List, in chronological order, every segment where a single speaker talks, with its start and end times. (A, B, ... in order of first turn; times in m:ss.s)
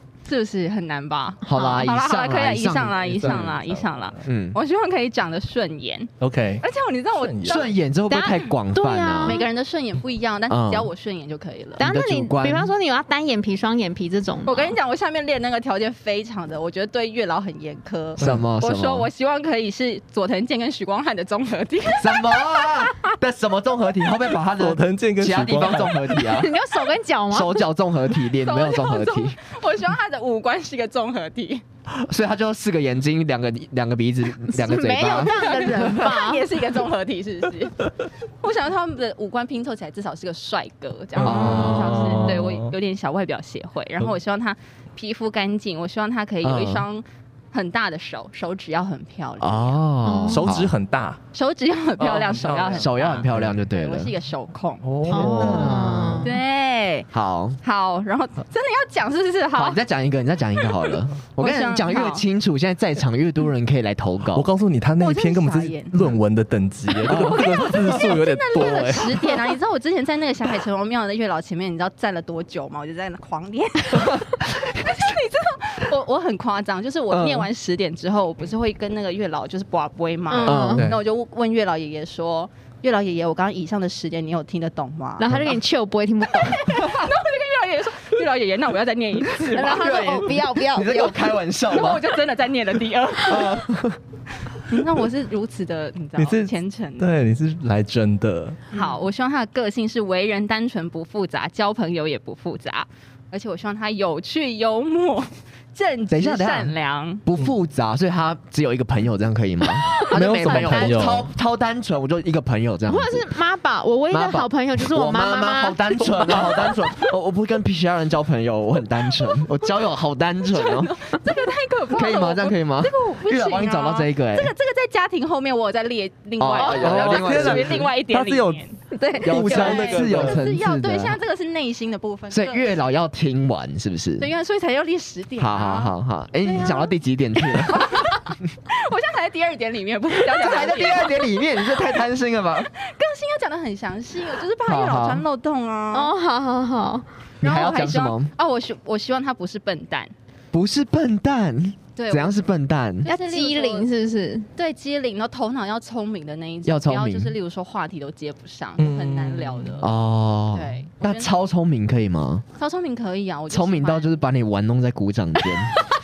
0:00.2-0:06.1 A
0:01.4-0:03.4 B
0:01.5-0:01.8 C
0:03.2-0:04.1 D
0:04.2-0:04.6 B
0:06.2-0:07.6 D
0:06.6-0:08.4 A
0:07.4-0:09.4 B
0:08.8-0:09.5 C
0:09.2-0:11.8 A
0:10.5-0:10.9 B
0:11.8-0:12.7 B
0:11.8-0:14.8 C
0:14.5-0:22.8 A
0:18.2-0:19.1 B
0:22.0-0:26.5 B
0:24.6-0:26.1 D
0:26.2-0:27.7 C
0:27.3-0:29.4 B
0:28.4-0:31.6 A
0:32.0-0:35.8 B
0:34.5-0:36.5 C
0:35.1-0:49.8 A
0:41.2-0:42.8 D
0:41.2-0:42.4 B
0:46.4-0:46.8 B
0:49.4-0:50.7 B
0:50.0-0:50.6 C
0:50.3-0:51.2 D
0:51.3-0:54.9 A
0:52.0-0:53.6 D
0:52.6-0:54.1 B
0:54.8-0:56.2 D
0:55.1-0:56.3 C
0:55.1-0:56.3 B
0:56.2-0:57.1 A
0:57.1-0:57.6 B
0:57.6-0:59.8 A
0:59.6-1:04.5 B
1:01.4-1:02.2 A
1:04.3-1:09.4 D
1:05.0-1:06.1 A
1:07.1-1:08.0 B
1:07.1-1:25.3 A
1:17.1-1:17.5 B
1:20.3-1:20.9 C
1:20.4-1:20.9 B
1:20.8-1:21.0 D
1:25.2-1:26.9 C
1:26.5-1:30.2 A
1:29.5-1:31.2 C
1:29.6-1:32.0 B
1:31.7-1:33.7 A
1:33.2-1:34.0 B
1:34.6-1:37.1 A
1:36.2-1:38.6 D
1:38.7-1:47.2 A
1:46.1-1:46.7 B
1:47.2-1:53.3 B
1:49.8-1:51.1 C
1:50.1-1:51.3 D
1:52.9-1:56.4 C
1:54.1-2:00.9 B
2:00.5-2:12.8 A
2:01.9-2:04.5 B
2:06.4-2:07.9 B
2:06.8-2:08.6 D
2:08.9-2:09.3 C
2:09.2-2:10.4 D
2:09.2-2:11.2 B
2:12.3-2:14.3 B
2:14.2-2:21.4 A
2:15.4-2:18.0 B
2:20.3-2:22.7 B
2:22.7-2:26.1 A
2:24.6-2:25.2 B
2:25.9-2:27.1 C
2:27.4-2:28.3 B
2:27.4-2:30.1 A
2:30.5-2:33.1 B
2:32.0-2:32.4 A
2:33.0-2:34.5 C
2:33.0-2:33.9 A
2:34.6-2:39.9 A
2:36.7-2:37.4 B
2:38.8-2:39.8 D
2:39.8-2:42.4 B
2:40.5-2:41.3 A
2:42.6-2:44.1 A
2:43.5-2:45.8 B